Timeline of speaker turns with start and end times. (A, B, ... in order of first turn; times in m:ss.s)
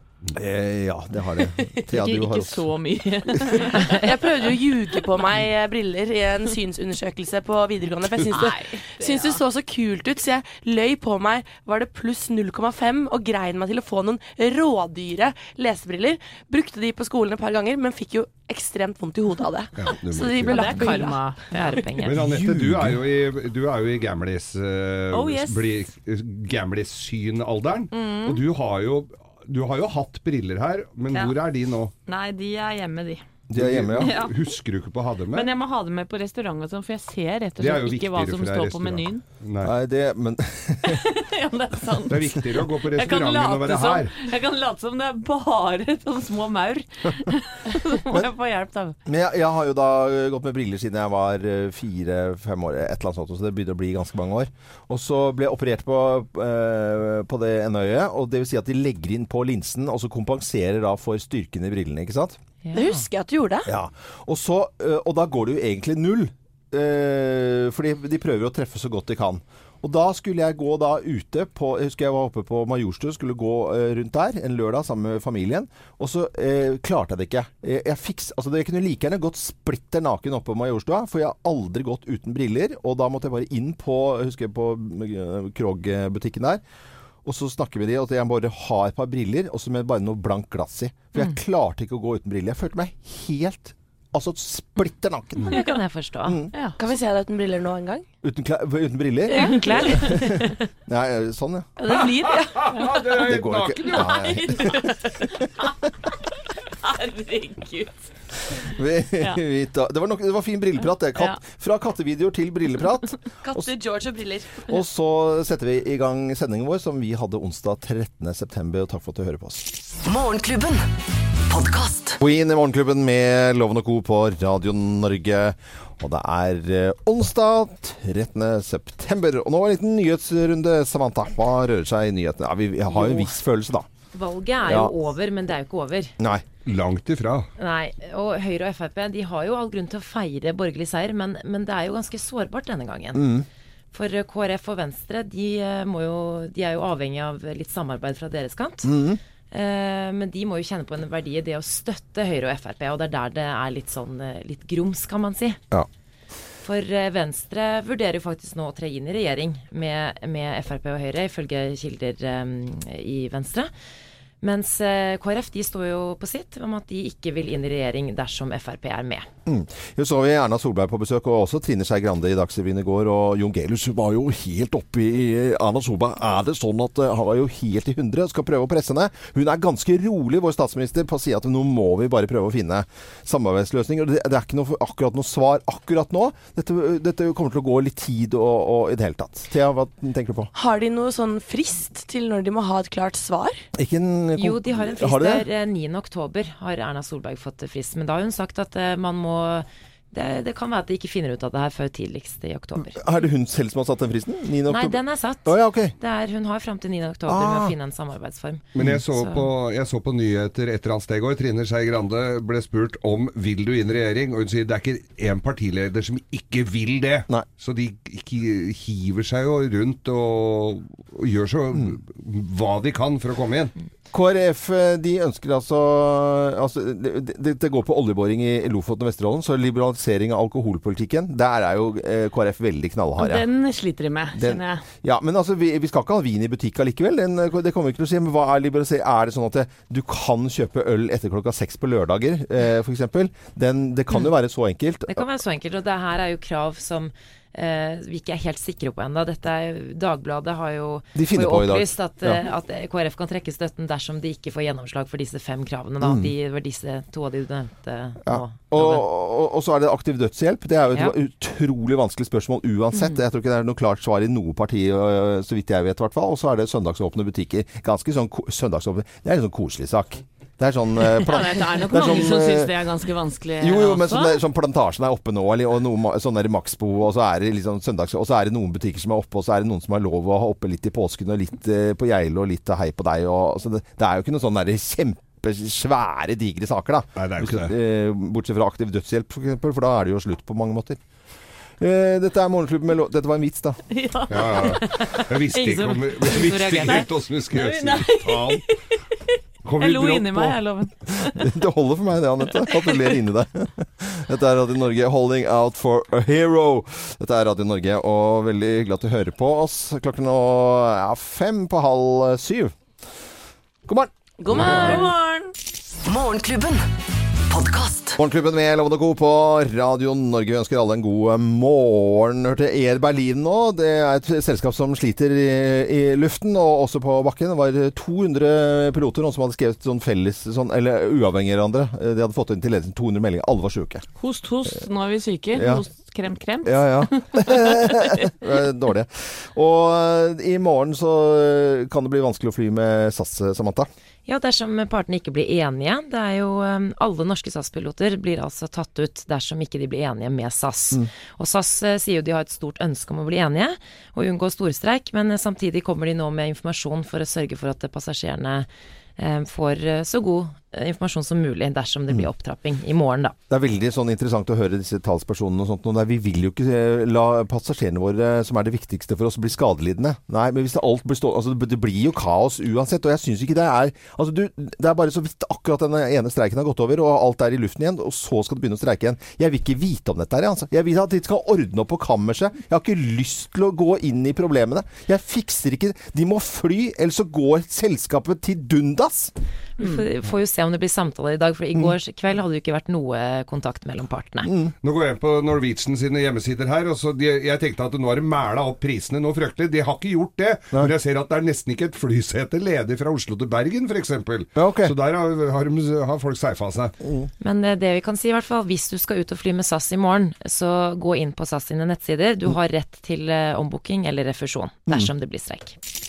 0:00.3-0:02.7 A
0:01.9-0:04.1 B
0:03.3-0:03.7 A
0:03.7-0:21.2 C
0:08.3-0:09.4 B
0:19.8-0:20.7 D
0:20.4-0:22.0 B
0:21.5-0:22.2 E
0:22.0-0:31.9 D
0:22.1-0:23.0 A
0:25.1-0:25.8 B
0:27.9-0:28.4 B
0:32.0-0:33.2 B
0:33.5-0:34.2 A
0:33.6-0:35.5 D
0:34.0-0:34.4 B
0:35.3-0:39.2 B
0:37.6-0:39.7 D
0:39.6-0:41.0 A
0:40.8-0:49.0 B
0:42.1-0:44.2 D
0:49.0-1:02.4 A
1:02.6-1:03.0 E
1:02.7-1:03.7 C
1:03.6-1:26.6 A
1:27.2-1:35.6 A
1:35.4-1:36.4 E
1:36.2-1:36.5 A
1:36.8-1:38.0 C
1:38.2-1:41.8 A
1:39.3-1:40.5 E
1:39.3-1:40.1 B
1:41.8-1:42.7 C
1:41.9-1:44.3 D
1:43.2-1:45.7 A
1:43.9-1:45.9 B
1:46.7-1:48.1 B
1:48.6-1:53.7 A
1:53.4-1:54.7 C
1:54.7-1:59.8 A
2:00.0-2:00.9 F
2:01.5-2:02.2 F
2:02.2-2:13.9 A
2:12.9-2:13.2 E
2:14.1-2:16.1 E
2:14.6-2:14.9 A
2:16.2-2:16.4 A
2:16.6-2:17.5 D
2:17.6-2:23.3 E
2:23.1-2:23.4 A
2:23.9-2:29.0 E
2:28.8-2:29.2 A
2:29.5-2:35.6 E
2:36.6-2:43.7 E
2:44.4-2:49.3 E
2:49.4-3:10.5 A
3:10.5-3:13.6 C
3:13.7-3:15.5 A
3:14.4-3:23.0 E
3:22.9-3:25.9 A
3:24.7-3:29.4 E
3:27.3-3:27.7 A
3:28.7-3:43.7 D
3:44.1-3:53.5 A
3:53.2-3:54.8 B
3:54.3-4:05.2 A
4:05.1-4:19.0 E
4:11.1-4:12.4 A
4:16.0-4:16.3 A
4:18.2-4:32.8 A
4:31.1-4:34.4 B
4:33.6-4:51.0 A
4:47.2-4:47.7 D
4:51.8-4:53.8 A
4:53.9-4:55.2 B
4:54.3-4:58.6 D
4:55.1-4:57.1 E
4:56.8-4:58.8 B
4:59.6-5:00.6 D
4:59.8-5:01.4 B
5:01.3-5:12.7 A
5:02.7-5:03.0 B
5:13.9-5:15.1 A
5:14.4-5:15.1 C
5:14.6-5:15.5 B
5:16.0-5:16.9 F
5:17.5-5:18.2 F
5:18.2-5:34.0 A
5:34.2-5:38.3 B
5:35.5-5:35.8 A
5:36.6-5:43.9 A
5:44.2-5:58.7 E
5:59.2-6:03.4 E
6:03.5-6:29.3 A
6:29.8-6:34.5 E
6:34.4-6:34.7 A
6:34.8-6:46.9 D
6:44.6-6:44.9 A
6:47.0-6:47.3 A
6:47.4-6:55.8 E